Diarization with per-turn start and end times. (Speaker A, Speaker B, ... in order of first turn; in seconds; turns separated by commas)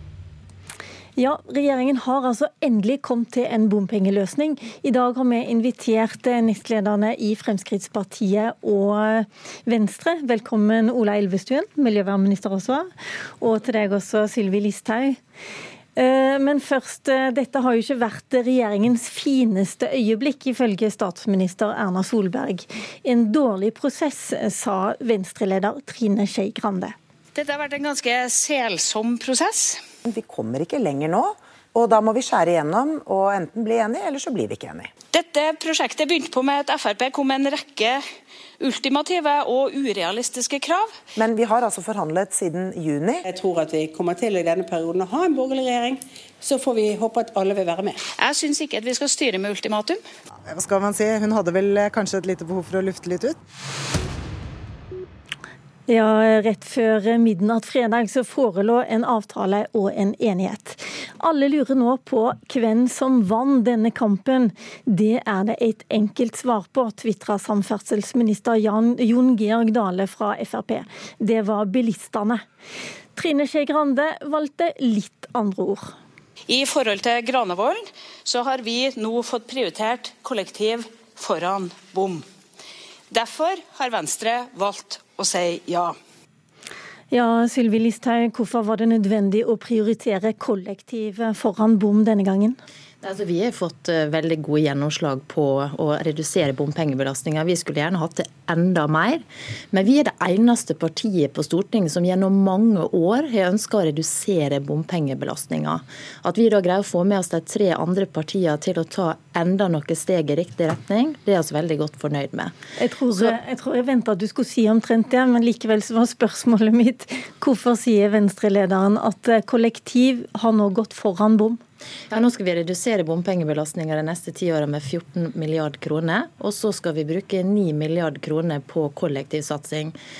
Speaker A: 1.1-12.9, Speaker A: 13.4-15.2, Speaker A: 15.9-26.9, Speaker B: 27.3-29.8, Speaker C: 30.0-34.9, Speaker B: 35.1-38.0, Speaker B: 38.6-40.9, Speaker C: 41.1-43.2, Speaker D: 43.3-48.0, Speaker B: 48.1-50.0, Speaker E: 50.5-53.4, Speaker A: 55.9-72.4, Speaker A: 73.2-75.9, Speaker B: 76.5-82.2, Speaker B: 83.1-86.0, Speaker A: 87.1-92.6, Speaker F: 93.0-112.5, Speaker A: 112.8-121.6, Speaker F: 122.1-129.9